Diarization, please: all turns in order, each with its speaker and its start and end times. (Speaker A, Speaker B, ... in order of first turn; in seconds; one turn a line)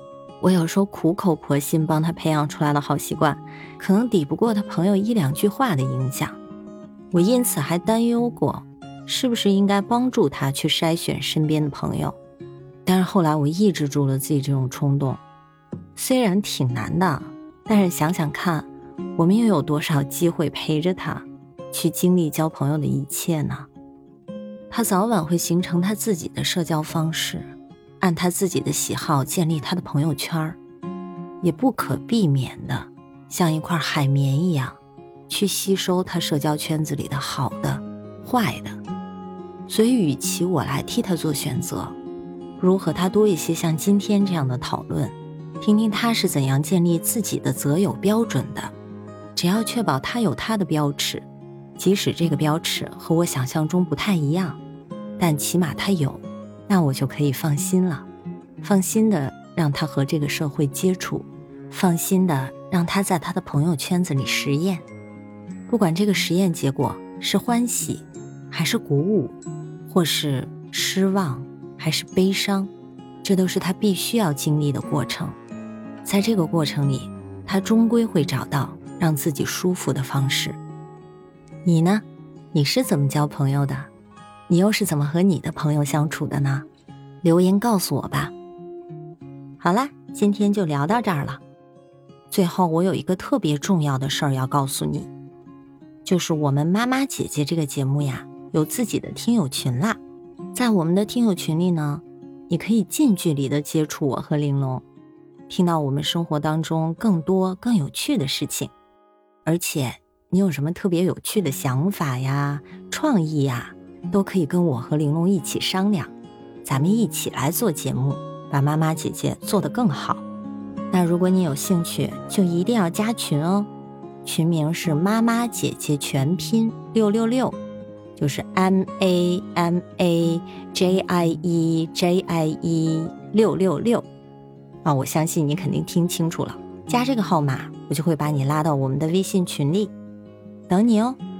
Speaker A: 0.4-6.4
Speaker A: 7.1-12.2
Speaker A: 12.8-15.2
Speaker A: 15.9-23.7
Speaker A: 24.7-27.5
Speaker A: 28.0-30.6
Speaker A: 31.4-34.8
Speaker A: 35.3-38.8
Speaker A: 39.7-41.9
Speaker A: 42.6-48.7
Speaker A: 49.4-51.2
Speaker A: 51.8-54.6
Speaker A: 55.2-58.1
Speaker A: 58.6-64.8
Speaker A: 65.7-69.3
Speaker A: 69.9-72.7
Speaker A: 73.2-75.4
Speaker A: 76.0-80.6
Speaker A: 81.6-83.9
Speaker A: 84.5-86.7
Speaker A: 87.2-88.3
Speaker A: 89.6-91.4
Speaker A: 92.3-95.1
Speaker A: 96.0-100.0
Speaker A: 100.5-104.8
Speaker A: 105.5-108.7
Speaker A: 109.4-116.1
Speaker A: 116.6-120.2
Speaker A: 120.9-123.7
Speaker A: 124.2-127.6
Speaker A: 128.2-134.1
Speaker A: 134.8-139.9
Speaker A: 140.7-141.2